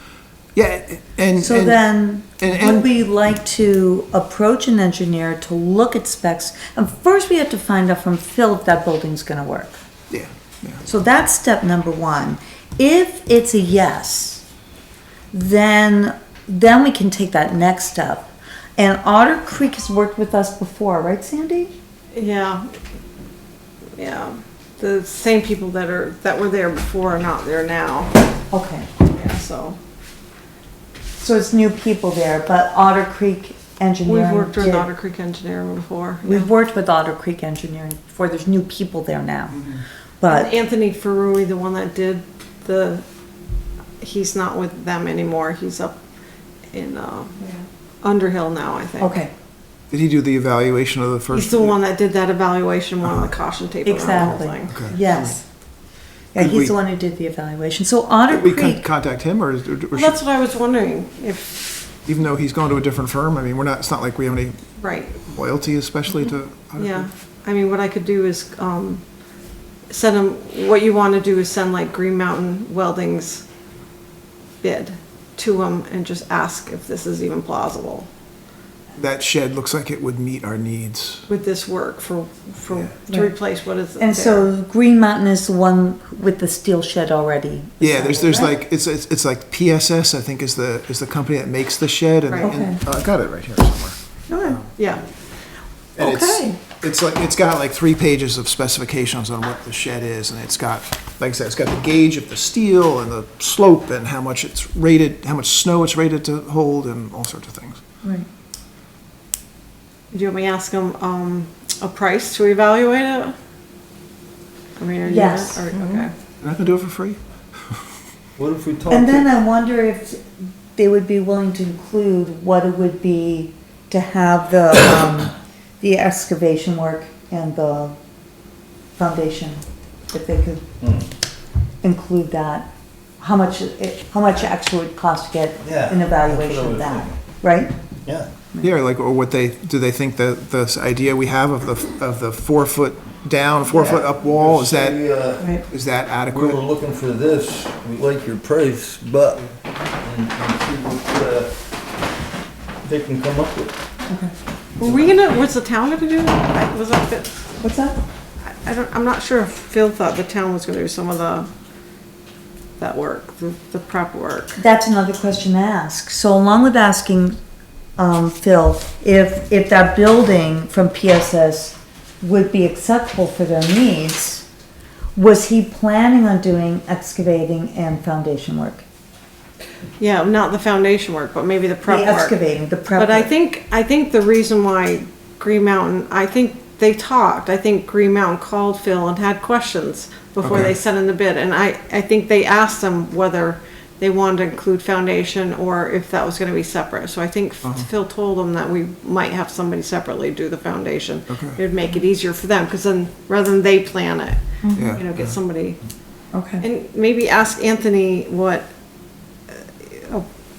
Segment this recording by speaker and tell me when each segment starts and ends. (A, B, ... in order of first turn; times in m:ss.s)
0:00.5-0:01.8 A
0:01.4-0:09.8 B
0:02.4-0:02.8 A
0:10.1-0:10.8 A
0:10.8-0:14.4 B
0:15.3-0:21.7 B
0:22.1-0:22.7 C
0:24.0-0:28.1 C
0:28.5-0:28.9 B
0:29.1-0:29.8 C
0:31.2-0:34.9 B
0:34.0-0:36.5 C
0:36.2-0:39.6 B
0:39.6-0:39.8 A
0:40.2-0:40.5 B
0:40.3-0:43.0 C
0:44.0-0:46.0 C
0:46.7-0:47.4 C
0:48.0-0:49.2 C
0:49.0-0:49.3 B
0:49.9-0:51.8 A
0:51.3-0:54.8 C
0:53.8-0:55.4 B
0:54.7-0:55.4 A
0:56.3-0:58.9 B
0:56.4-0:56.7 A
0:58.3-1:00.2 A
0:59.9-1:01.8 C
1:02.0-1:04.6 A
1:04.8-1:05.2 C
1:05.2-1:07.0 A
1:06.8-1:09.0 C
1:09.9-1:13.4 C
1:14.6-1:18.1 C
1:18.9-1:21.3 A
1:21.3-1:24.5 C
1:24.0-1:28.6 B
1:27.8-1:34.7 A
1:32.4-1:32.8 B
1:34.3-1:34.7 B
1:34.8-1:35.0 C
1:36.0-1:36.6 B
1:36.0-1:47.8 A
1:50.1-1:53.4 C
1:54.8-1:56.1 C
1:55.1-1:55.7 B
1:56.4-1:57.2 A
1:58.4-1:59.3 D
1:58.9-2:00.2 B
2:00.8-2:08.0 B
2:09.0-2:10.7 B
2:10.8-2:11.1 D
2:11.8-2:17.7 B
2:15.6-2:17.2 D
2:18.6-2:25.0 A
2:23.7-2:25.6 D
2:25.6-2:26.6 A
2:26.2-2:29.4 D
2:30.0-2:31.5 D
2:32.8-2:33.7 D
2:34.0-2:34.3 B
2:34.8-2:37.4 C
2:37.6-2:38.0 B
2:38.4-2:41.5 C
2:42.8-2:44.6 C
2:44.6-2:47.4 B
2:48.0-2:54.4 B
2:55.2-2:58.8 B
3:00.0-3:02.3 C
3:01.8-3:03.3 B
3:02.9-3:25.8 C
3:10.4-3:10.7 A
3:17.6-3:17.9 A
3:21.3-3:21.6 A
3:24.6-3:25.0 B
3:24.7-3:25.4 A
3:26.3-3:26.6 B
3:26.6-3:28.7 C
3:29.5-3:30.2 C